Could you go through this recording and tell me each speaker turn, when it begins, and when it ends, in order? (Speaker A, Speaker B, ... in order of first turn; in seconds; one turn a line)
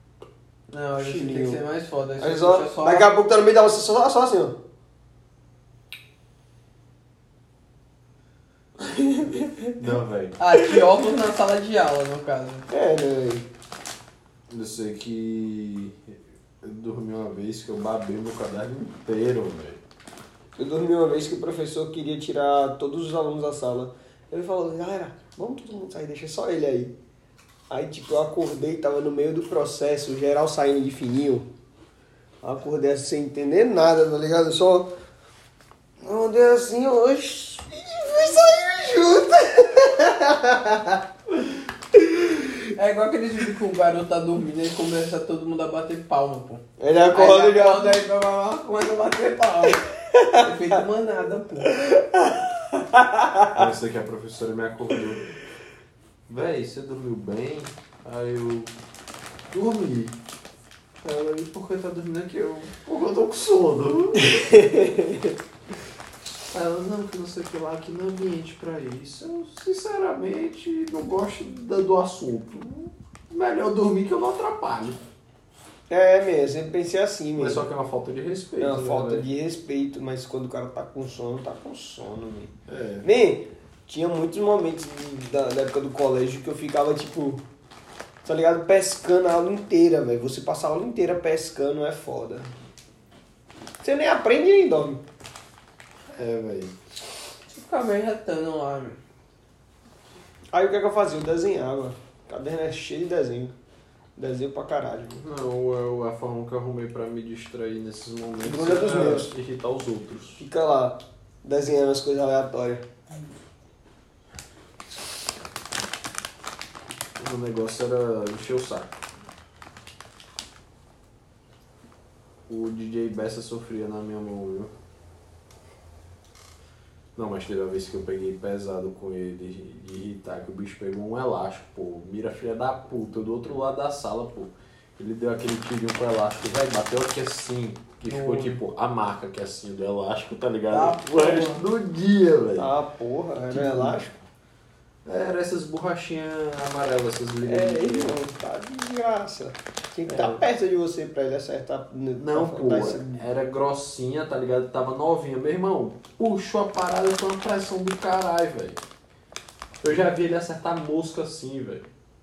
Speaker A: 0.7-3.1
Speaker B: 1.0-1.6
Speaker B: 2.2-4.6
Speaker B: 8.8-9.7
Speaker C: 9.7-10.4
Speaker A: 10.4-12.7
Speaker B: 12.7-13.5
Speaker C: 14.5-19.8
Speaker B: 20.6-26.9
Speaker B: 27.7-31.5
Speaker B: 32.4-34.9
Speaker B: 36.0-41.0
Speaker B: 41.9-42.6
Speaker A: 42.7-51.8
Speaker B: 46.8-48.1
Speaker B: 50.1-50.5
Speaker B: 51.6-53.7
Speaker C: 53.5-55.3
Speaker C: 56.3-58.7
Speaker C: 59.5-60.2
Speaker C: 61.0-64.9
Speaker B: 64.5-65.3
Speaker C: 66.5-75.0
Speaker B: 75.9-77.7
Speaker C: 77.4-79.3
Speaker B: 78.6-87.4
Speaker C: 82.7-83.0
Speaker B: 88.2-92.5
Speaker B: 93.8-95.0
Speaker C: 96.1-96.7
Speaker A: 97.5-99.0
Speaker B: 100.5-103.5
Speaker B: 104.2-105.2
Speaker C: 105.2-110.4
Speaker B: 108.4-109.3
Speaker B: 110.4-112.9
Speaker C: 117.2-118.9
Speaker C: 122.5-124.7
Speaker C: 127.2-142.7
Speaker A: 138.1-138.6
Speaker A: 140.7-141.6
Speaker B: 142.6-144.2
Speaker C: 143.5-144.0
Speaker C: 145.1-148.2
Speaker B: 147.4-153.2
Speaker C: 150.1-150.4
Speaker C: 152.2-158.8
Speaker C: 159.8-161.9